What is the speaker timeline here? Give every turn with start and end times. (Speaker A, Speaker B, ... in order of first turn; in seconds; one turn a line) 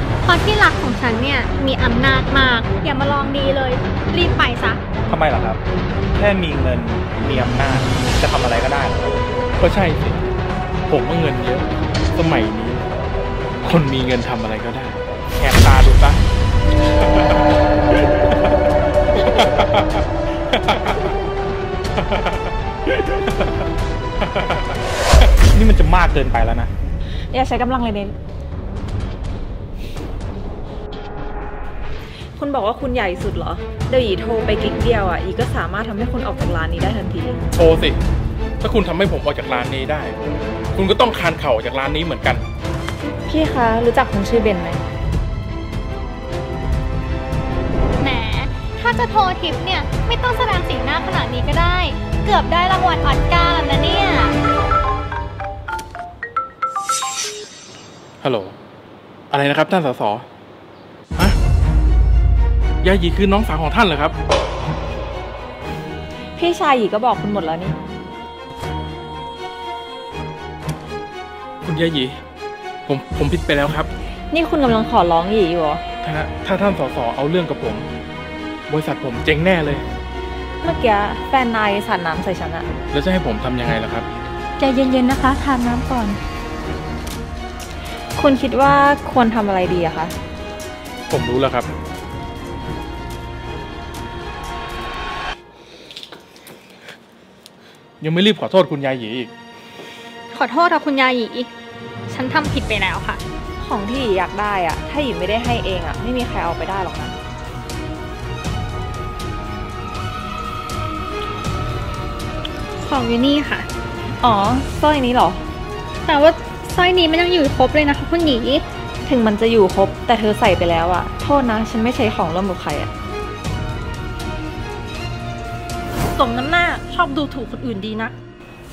Speaker A: 0.2-4.8
Speaker B: 5.1-5.6
Speaker B: 6.2-9.2
Speaker C: 9.6-10.2
Speaker C: 10.9-12.8
Speaker C: 13.6-16.2
Speaker C: 17.0-18.5
Speaker C: 19.1-21.2
Speaker C: 21.9-23.7
Speaker C: 24.2-24.8
Speaker B: 25.5-26.7
Speaker D: 27.3-28.1
Speaker D: 32.4-37.4
Speaker C: 37.5-38.0
Speaker C: 38.6-40.2
Speaker C: 40.8-42.4
Speaker D: 43.3-44.8
Speaker A: 48.0-54.4
Speaker C: 58.2-58.5
Speaker C: 59.3-60.2
Speaker C: 62.8-64.1
Speaker D: 66.4-67.8
Speaker C: 71.6-72.2
Speaker C: 72.9-73.9
Speaker D: 74.3-75.8
Speaker C: 76.0-77.9
Speaker C: 78.7-79.8
Speaker D: 80.6-82.7
Speaker C: 82.9-84.1
Speaker E: 84.6-86.2
Speaker D: 88.2-90.1
Speaker C: 91.1-91.7
Speaker C: 98.0-99.3
Speaker A: 100.3-101.5
Speaker A: 102.1-103.2
Speaker D: 103.6-107.2
Speaker A: 112.8-113.7
Speaker D: 114.2-115.4
Speaker A: 116.0-118.6
Speaker D: 119.0-122.9
Speaker E: 126.1-128.1